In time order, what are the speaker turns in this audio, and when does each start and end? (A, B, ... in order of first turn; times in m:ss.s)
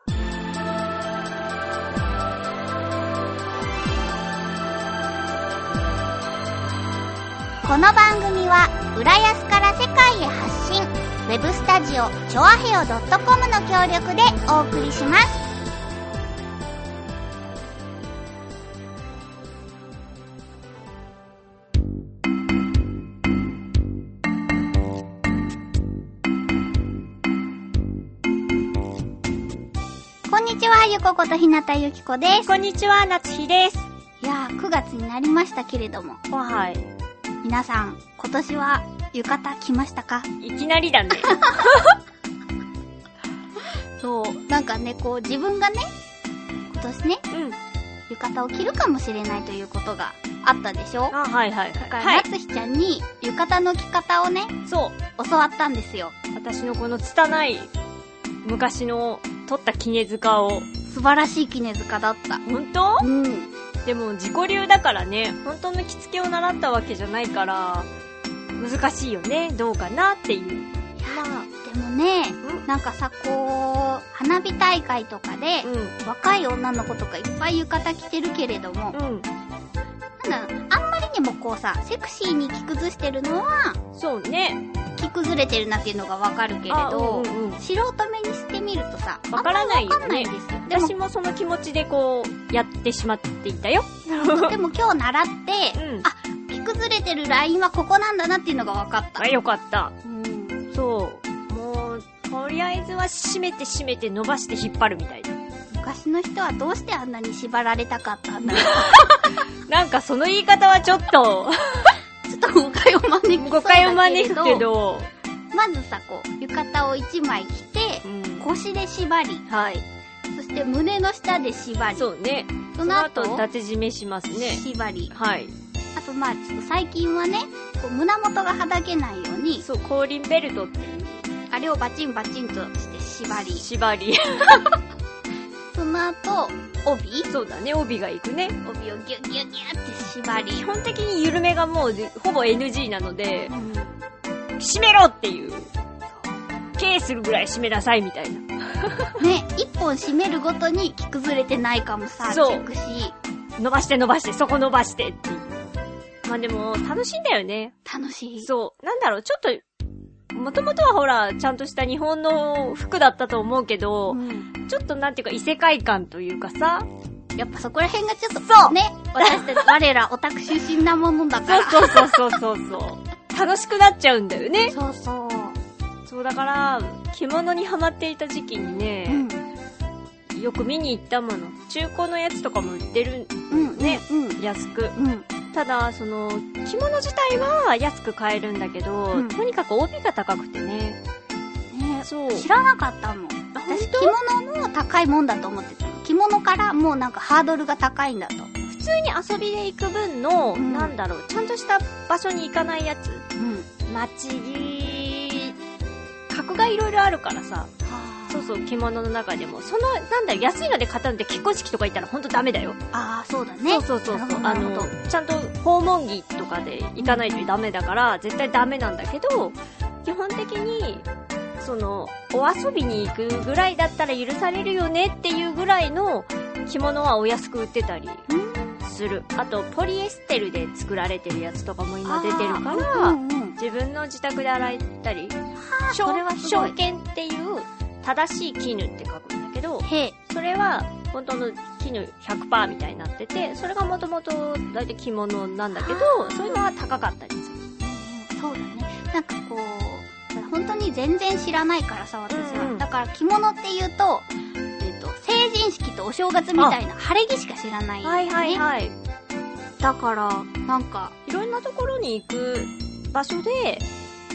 0:07.6-0:15.4 A
0:30.3-0:32.5 A
0:32.4-0:33.9 B
0:34.2-0:36.2 A
0:36.3-0:36.9 B
0:37.4-0:40.3 A
0:40.4-0:41.9 B
0:41.2-0:41.6 A
0:44.0-0:45.9 A
0:46.7-0:47.2 A
0:47.3-0:47.6 B
0:48.1-0:51.2 A
0:51.1-0:52.2 B
0:51.8-0:54.5 A
0:54.6-0:55.0 B
0:55.2-0:56.1 A
0:56.3-0:57.7 B
0:58.4-1:00.7 B
1:00.8-1:02.4 A
1:02.4-1:03.1 B
1:03.0-1:03.5 A
1:03.8-1:07.9 B
1:08.6-1:11.5 B
1:11.0-1:19.0 A
1:15.6-1:16.0 B
1:18.9-1:19.3 B
1:20.2-1:23.8 A
1:23.9-1:24.6 B
1:25.0-1:30.9 A
1:26.7-1:27.6 B
1:29.3-1:34.5 B
1:34.2-1:39.3 A
1:35.7-1:36.1 B
1:39.2-1:39.9 B
1:40.0-1:40.6 A
1:40.7-1:45.4 B
1:45.7-1:49.3 A
1:48.5-1:49.1 B
1:49.6-1:52.0 B
1:52.2-1:54.7 A
1:53.4-1:55.1 B
1:55.5-1:59.4 A
1:58.0-1:58.5 B
1:59.5-1:59.8 B
2:00.3-2:02.1 A
2:01.9-2:05.5 B
2:02.7-2:03.4 A
2:04.3-2:05.1 A
2:05.9-2:09.6 A
2:09.6-2:11.3 B
2:11.5-2:13.6 A
2:13.5-2:14.8 B
2:15.7-2:17.3 A
2:17.3-2:18.6 B
2:18.6-2:20.7 A
2:20.5-2:23.5 B
2:23.5-2:24.0 A
2:24.6-2:25.7 B
2:26.1-2:26.4 A
2:26.8-2:29.2 B
2:29.2-2:33.1 A
2:32.2-2:32.7 B
2:33.6-2:37.7 B
2:37.8-2:38.5 A
2:38.4-2:39.6 B
2:40.3-2:46.9 B
2:44.1-2:44.5 A
2:47.4-2:52.2 A
2:48.4-2:49.7 B
2:51.4-2:54.7 B
2:54.7-2:55.6 A
2:56.0-2:59.3 B
2:59.1-2:59.4 A
3:00.3-3:05.0 B
3:03.5-3:04.4 A
3:04.9-3:05.3 A
3:05.5-3:11.0 B
3:09.1-3:09.4 A
3:11.7-3:18.5 A
3:12.0-3:12.5 B
3:13.5-3:14.2 B
3:18.7-3:23.2 B
3:20.5-3:20.9 A
3:23.4-3:23.7 A
3:23.9-3:25.6 B
3:26.3-3:27.7 B
3:27.8-3:28.5 A
3:28.3-3:32.8 B
3:32.9-3:34.9 A
3:33.7-3:41.1 B
3:37.0-3:37.5 A
3:41.6-3:48.2 B
3:48.3-3:48.8 A
3:48.8-3:55.4 B
3:52.0-3:53.6 A
3:55.6-3:56.8 A
3:55.9-4:07.6 B
3:59.8-4:00.2 A
4:05.7-4:06.6 A
4:07.8-4:18.6 A
4:12.3-4:12.8 B
4:18.0-4:18.9 B
4:19.8-4:21.1 A
4:21.2-4:23.9 B